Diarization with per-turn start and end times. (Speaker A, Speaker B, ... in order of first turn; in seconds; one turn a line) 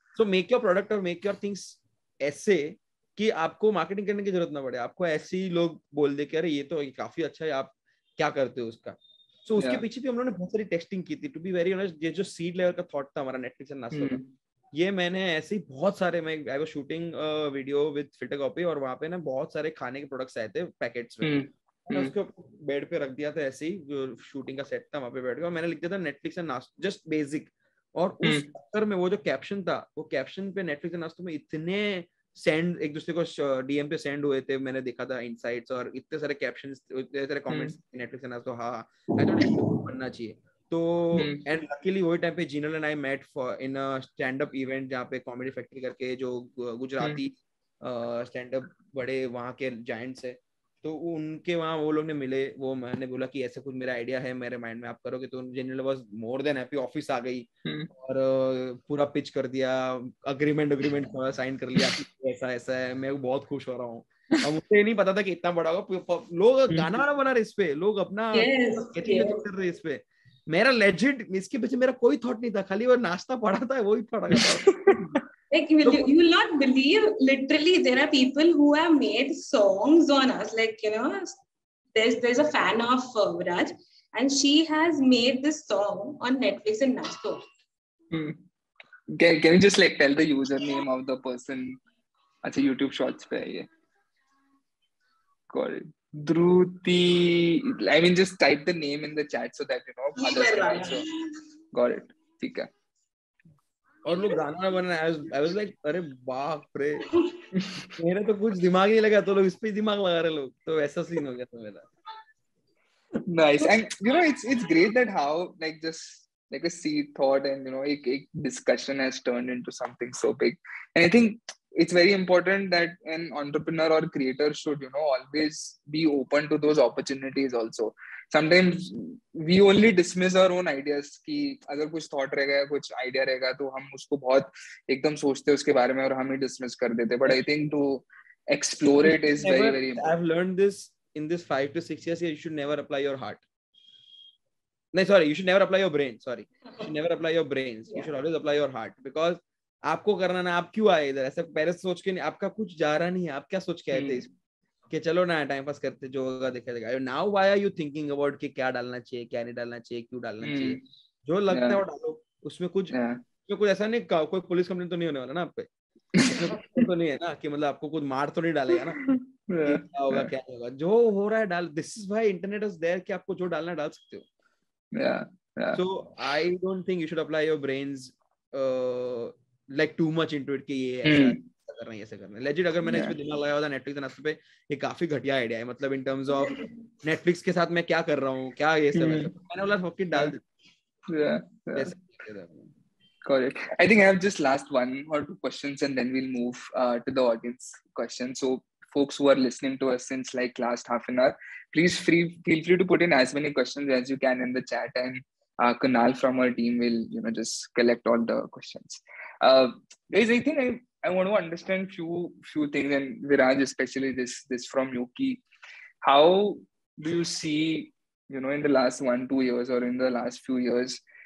Speaker A: 0.2-14.2
Speaker B: 13.9-14.3
Speaker A: 14.8-21.3
Speaker B: 21.2-22.1
Speaker A: 21.9-75.2
Speaker B: 28.2-28.5
Speaker B: 41.1-41.4
Speaker B: 57.6-57.9
Speaker B: 66.7-67.0
Speaker C: 68.3-69.4
Speaker B: 74.3-75.0
Speaker C: 75.5-81.4
Speaker C: 81.9-87.4
Speaker B: 88.1-88.4
Speaker B: 89.1-91.8
Speaker B: 92.4-93.7
Speaker B: 95.5-101.0
Speaker C: 100.2-101.3
Speaker B: 101.7-102.7
Speaker A: 104.0-107.1
Speaker C: 107.1-107.4
Speaker B: 107.5-107.9
Speaker A: 108.0-111.9
Speaker B: 113.3-140.1
Speaker A: 139.1-143.4
Speaker A: 144.9-154.3
Speaker B: 153.9-154.2
Speaker A: 154.9-162.9
Speaker B: 160.4-160.8
Speaker B: 161.5-161.8
Speaker B: 162.9-163.2
Speaker A: 163.5-165.7
Speaker B: 166.2-166.4
Speaker A: 166.2-169.0
Speaker B: 169.0-170.3
Speaker A: 169.6-174.2
Speaker B: 174.9-175.8
Speaker A: 175.8-190.4
Speaker B: 181.1-181.4
Speaker B: 182.8-183.2
Speaker B: 189.0-189.3
Speaker B: 191.1-192.0
Speaker A: 191.7-192.7
Speaker B: 193.2-215.4
Speaker B: 216.0-221.0